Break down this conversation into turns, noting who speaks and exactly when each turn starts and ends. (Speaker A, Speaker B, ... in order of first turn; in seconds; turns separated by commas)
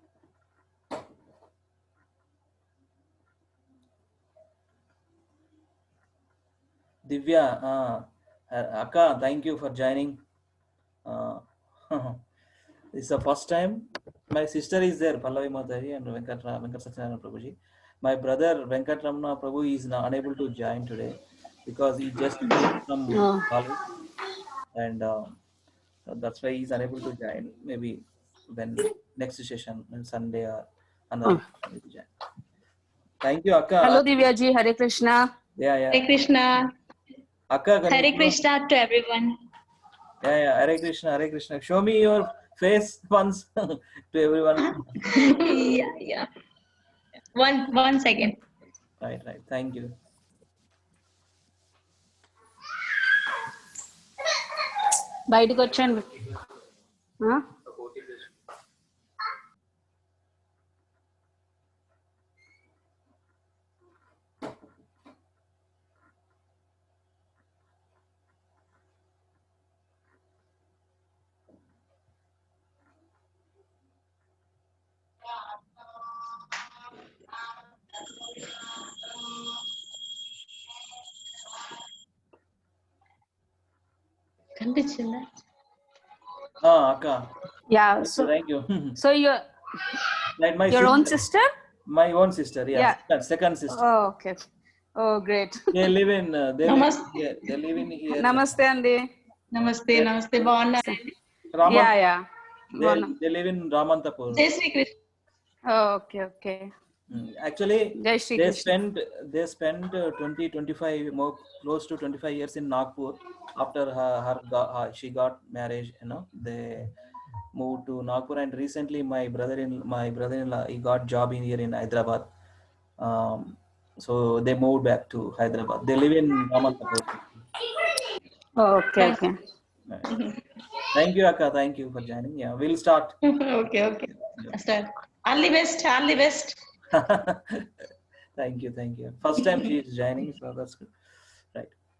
Speaker A: 7.0-10.2, Speaker A: 11.1-12.2, Speaker A: 12.9-23.8, Speaker B: 23.1-23.4, Speaker A: 24.7-25.3, Speaker A: 26.1-32.1, Speaker A: 33.2-34.0, Speaker B: 33.8-35.2, Speaker A: 35.6-36.1, Speaker C: 35.9-36.7, Speaker A: 37.5-38.4, Speaker C: 37.9-39.4, Speaker A: 40.2-45.1, Speaker C: 44.6-46.3, Speaker C: 47.4-48.4, Speaker A: 49.0-49.9, Speaker B: 55.3-56.2, Speaker C: 78.3-78.7, Speaker C: 84.6-85.3, Speaker A: 86.6-87.3, Speaker B: 87.7-88.3, Speaker A: 88.0-89.0, Speaker B: 89.0-89.4, Speaker A: 90.4-91.2, Speaker B: 90.7-91.5, Speaker A: 91.9-93.8, Speaker B: 93.7-94.3, Speaker B: 95.0-95.9, Speaker A: 95.7-98.5, Speaker C: 96.6-97.6, Speaker B: 98.1-99.0, Speaker C: 99.5-101.1, Speaker A: 99.6-100.1, Speaker A: 101.5-101.9, Speaker B: 101.6-102.2, Speaker B: 102.8-103.1, Speaker A: 102.8-104.5, Speaker C: 104.3-104.9, Speaker B: 105.7-106.7, Speaker A: 107.1-116.9, Speaker B: 108.0-108.7, Speaker A: 117.5-122.3, Speaker A: 123.0-127.4, Speaker B: 128.6-129.3, Speaker C: 129.0-129.2, Speaker C: 130.1-130.4, Speaker A: 130.9-133.2, Speaker C: 133.2-136.6, Speaker A: 134.2-134.6, Speaker A: 136.9-137.7, Speaker A: 138.4-140.9